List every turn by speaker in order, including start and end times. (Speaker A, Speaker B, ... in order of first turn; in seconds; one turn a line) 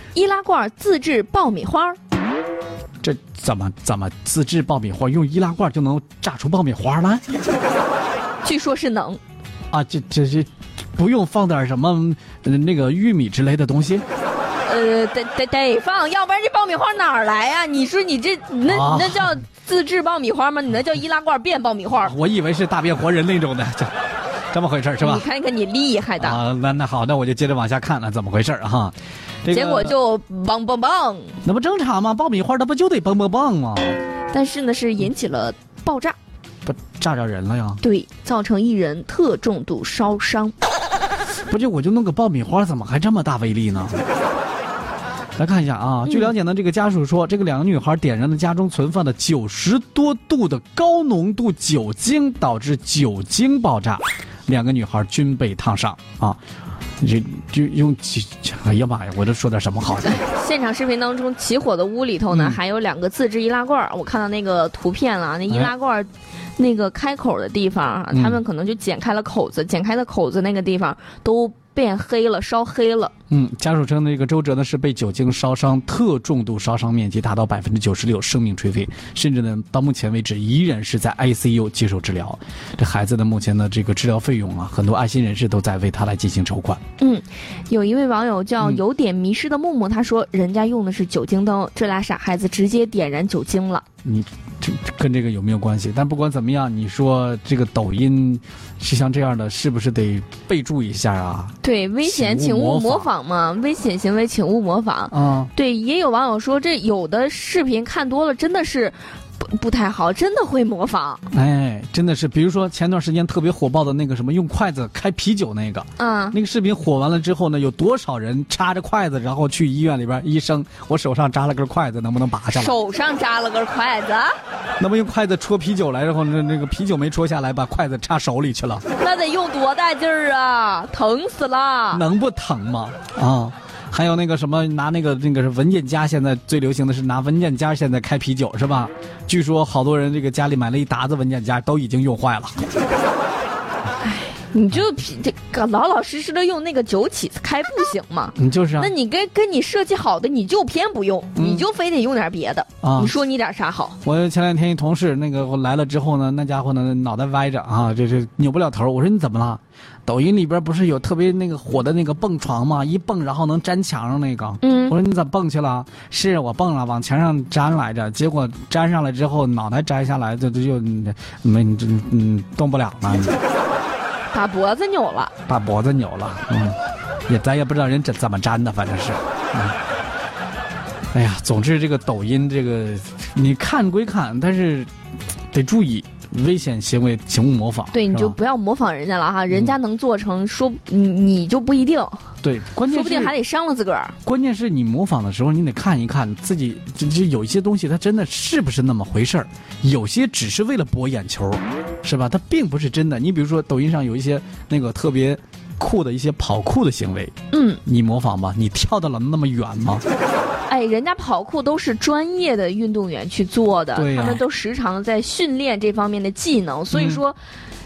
Speaker A: 0.1-2.0
Speaker B: 3.0-7.3
Speaker A: 8.4-9.2
Speaker B: 9.7-14.1
Speaker A: 14.7-22.1
Speaker B: 18.7-19.3
Speaker B: 22.0-23.9
Speaker B: 24.5-25.3
Speaker A: 25.0-26.4
Speaker B: 26.2-29.9
Speaker A: 29.5-31.4
Speaker B: 31.4-34.0
Speaker A: 34.3-36.2
Speaker B: 36.7-37.8
Speaker A: 37.8-40.6
Speaker B: 41.5-44.0
Speaker B: 45.4-56.4
Speaker B: 57.0-60.2
Speaker A: 60.0-73.1
Speaker B: 62.3-62.6
Speaker B: 68.1-68.4
Speaker B: 73.3-86.8
Speaker A: 87.0-93.8
Speaker B: 94.0-103.1
Speaker A: 101.6-111.2
Speaker B: 105.1-105.5
Speaker B: 111.3-122.7
Speaker A: 116.0-116.4
Speaker A: 122.5-124.4
Speaker B: 124.8-128.8
Speaker A: 129.0-132.0
Speaker B: 131.9-142.6
Speaker A: 144.0-154.0
Speaker B: 148.4-148.9
Speaker B: 151.4-151.7
Speaker B: 152.8-153.1
Speaker B: 154.0-173.4
Speaker A: 164.6-165.0
Speaker A: 174.3-175.3
Speaker B: 175.5-176.8
Speaker B: 177.3-179.8
Speaker B: 181.1-184.9
Speaker B: 185.5-188.3
Speaker A: 187.9-192.3
Speaker B: 189.5-189.8
Speaker B: 192.4-193.3
Speaker A: 192.8-194.2
Speaker B: 194.2-207.3
Speaker A: 207.5-207.8
Speaker B: 207.8-210.0
Speaker A: 210.7-217.4
Speaker B: 213.9-214.4
Speaker B: 216.9-217.2